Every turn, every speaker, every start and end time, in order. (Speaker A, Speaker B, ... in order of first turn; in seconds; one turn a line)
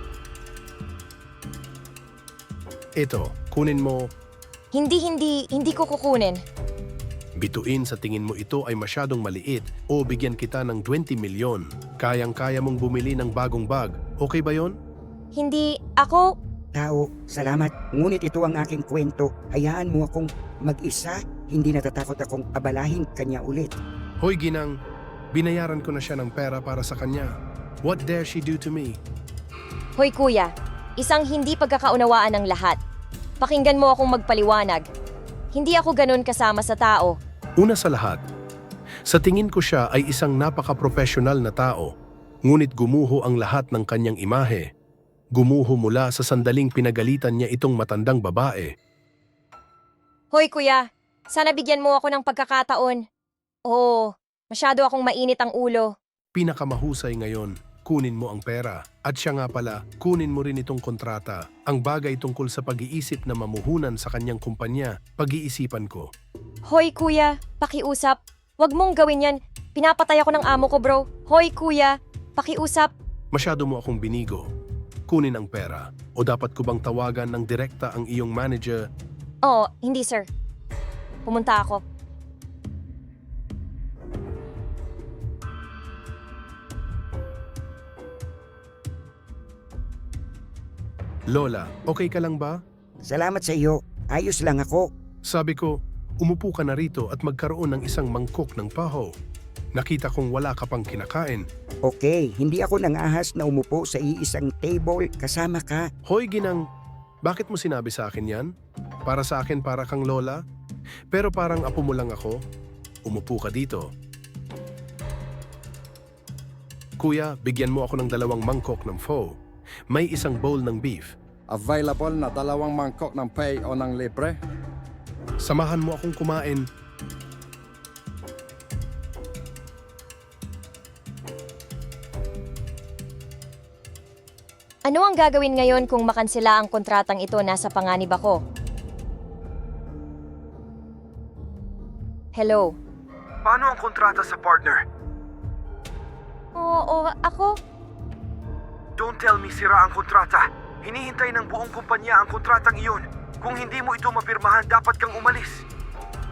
Speaker A: 3.0-4.1
Speaker B: 4.7-6.4
Speaker A: 7.4-14.8
Speaker B: 15.3-16.3
Speaker C: 16.8-23.8
Speaker A: 24.2-24.7
Speaker A: 25.3-27.3
Speaker A: 27.8-29.0
Speaker B: 30.0-32.8
Speaker B: 33.4-34.9
Speaker B: 35.5-37.2
Speaker A: 37.6-38.2
Speaker A: 39.1-41.9
Speaker A: 42.5-44.6
Speaker A: 45.4-48.7
Speaker B: 50.3-53.0
Speaker B: 53.7-55.9
Speaker A: 56.4-66.1
Speaker B: 66.7-72.9
Speaker A: 73.3-74.5
Speaker A: 75.1-78.8
Speaker B: 79.5-80.3
Speaker B: 81.3-81.8
Speaker A: 91.3-92.6
Speaker C: 93.0-94.9
Speaker A: 95.3-99.1
Speaker A: 99.7-101.5
Speaker C: 101.9-105.9
Speaker A: 106.1-106.6
Speaker A: 107.2-108.5
Speaker A: 109.1-110.4
Speaker A: 111.1-112.3
Speaker A: 113.0-113.9
Speaker A: 117.0-119.3
Speaker A: 119.9-121.1
Speaker D: 121.5-124.4
Speaker A: 125.4-126.7
Speaker B: 134.9-138.4
Speaker B: 142.3-142.7
Speaker E: 143.5-144.0
Speaker A: 144.1-144.5
Speaker B: 146.6-147.6
Speaker A: 149.1-150.0
Speaker E: 149.7-151.2
Speaker A: 151.3-152.9
Speaker E: 152.3-152.7
Speaker E: 153.5-154.1
Speaker A: 153.6-154.9
Speaker E: 154.8-155.4